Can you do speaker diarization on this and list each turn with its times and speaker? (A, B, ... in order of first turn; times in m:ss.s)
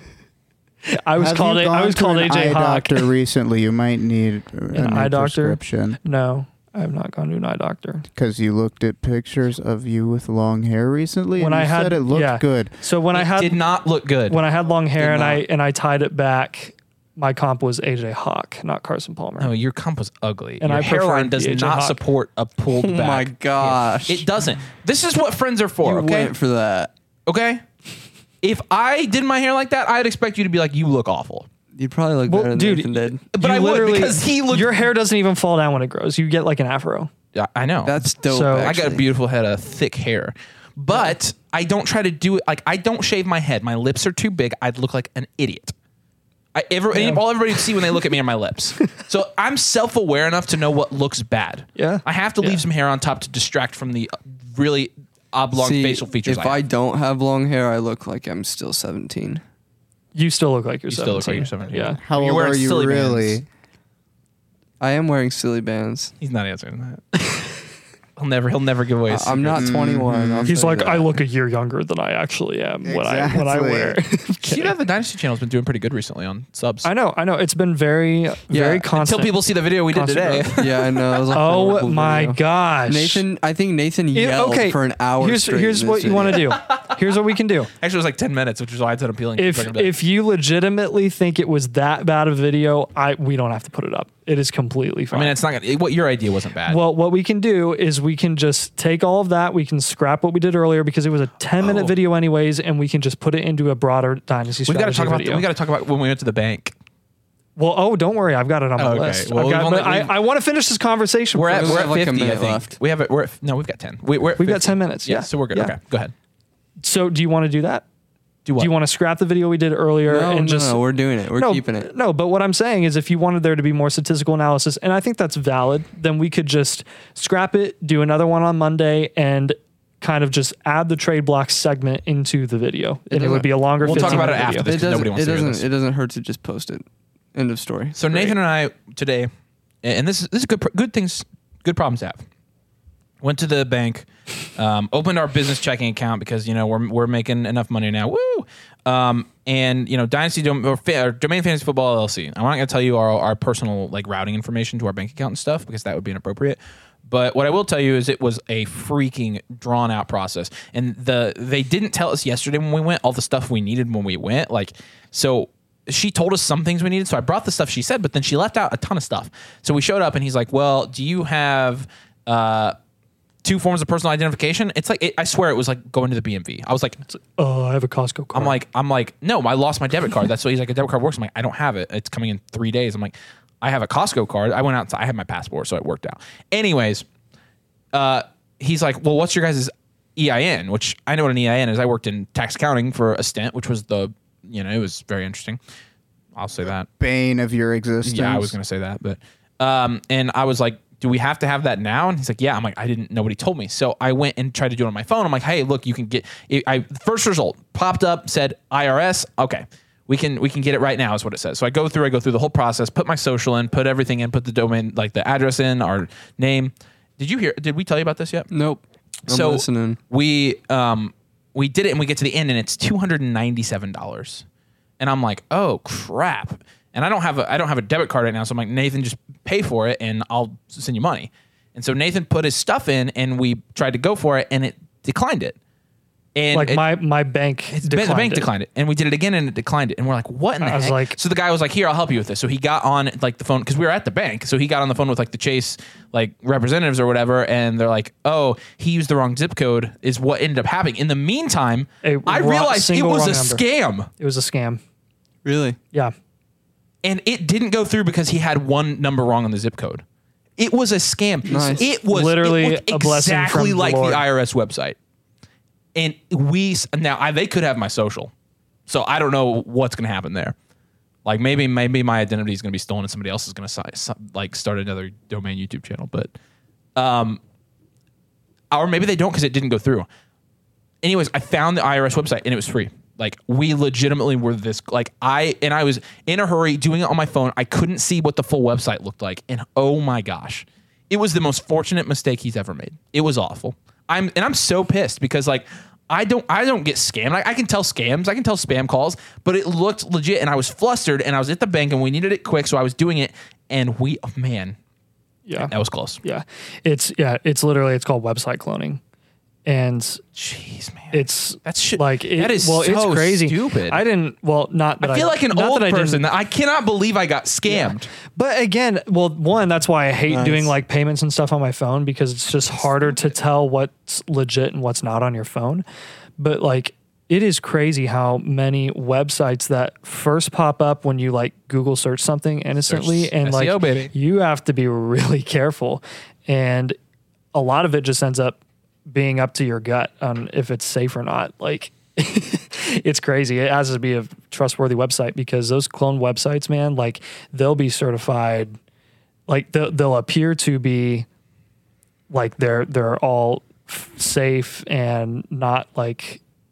0:00.8-0:03.1 A
0:01.2-0:06.0 B
0:04.7-0:08.1 A
0:08.1-0:12.7 B
0:11.4-0:13.6 A
0:13.1-0:14.4 C
0:14.3-0:19.5 A
0:15.0-0:15.4 D
0:19.4-0:26.3 C
0:20.6-0:22.0 A
0:22.7-0:24.3 D
0:25.8-0:26.9 D
0:27.2-0:27.6 C
0:28.4-0:31.5 C
0:31.7-0:33.2 D
0:32.3-0:37.1 A
0:33.3-0:34.7 C
0:37.3-0:45.7 C
0:37.8-0:39.0 D
0:38.2-0:38.8 A
0:46.5-0:56.6 C
0:46.9-0:47.8 A
0:51.8-0:52.6 A
0:55.6-0:59.4 D
1:00.1-1:02.0 A
1:00.9-1:03.4 C
1:02.0-1:03.4 B
1:04.8-1:06.1 D
1:06.2-1:07.0 C
1:08.2-1:09.7 C
1:09.1-1:11.1 D
1:09.6-1:10.5 B
1:10.4-1:14.7 A
1:12.8-1:14.0 B
1:14.4-1:16.9 C
1:16.8-1:19.3 A
1:18.5-1:18.9 D
1:19.0-1:21.1 C
1:19.9-1:20.5 A
1:20.6-1:26.5 D
1:21.3-1:23.2 A
1:24.1-1:27.7 A
1:26.6-1:26.9 C
1:27.8-1:29.9 C
1:29.4-1:35.4 A
1:35.1-1:36.8 C
1:36.7-1:45.4 A
1:41.6-1:41.9 C
1:44.7-1:46.7 C
1:47.6-1:51.9 A
1:48.8-1:50.1 C
1:51.3-1:56.1 C
1:51.6-1:52.7 D
1:54.4-1:55.7 A
1:56.8-1:57.8 A
1:58.4-1:58.7 C
1:58.6-2:14.7 A
2:00.0-2:01.9 D
2:13.1-2:18.4 D
2:13.8-2:15.6 C
2:18.0-2:19.3 C
2:19.8-2:22.2 C
2:23.2-2:52.8 C
2:53.4-2:57.0 C
2:57.1-2:58.6 A
2:58.3-3:07.0 C
3:07.9-3:15.6 C
3:16.4-3:16.9 C
3:17.0-3:18.5 B
3:18.0-3:38.5 C
3:38.5-3:40.0 D
3:39.3-3:44.4 C
3:45.0-3:55.6 C
3:56.4-3:56.8 C
3:56.5-3:58.5 A
3:57.7-4:14.1 C
4:00.6-4:01.2 A
4:12.0-4:13.6 A
4:14.2-4:14.8 A
4:15.4-4:15.8 D
4:17.0-4:20.0 C
4:20.6-4:25.0 C
4:21.5-4:21.8 D
4:21.5-4:24.2 A
4:25.9-4:28.3 C
4:28.9-4:30.5 C
4:31.2-4:36.3 C
4:37.0-4:37.4 C
4:38.7-4:40.1 C
4:41.0-5:04.8 C
5:05.4-5:05.7 A
5:05.6-5:06.2 C
5:06.2-5:09.0 A
5:09.6-5:10.2 A
5:10.4-5:14.0 C
5:11.1-5:16.2 A
5:15.0-5:18.1 C
5:17.7-5:25.8 A
5:20.3-5:20.7 D
5:22.8-5:23.2 C
5:26.4-5:37.0 A
5:32.8-5:34.1 C
5:37.5-5:48.8 A
5:49.5-5:51.2 A
5:52.3-5:56.4 A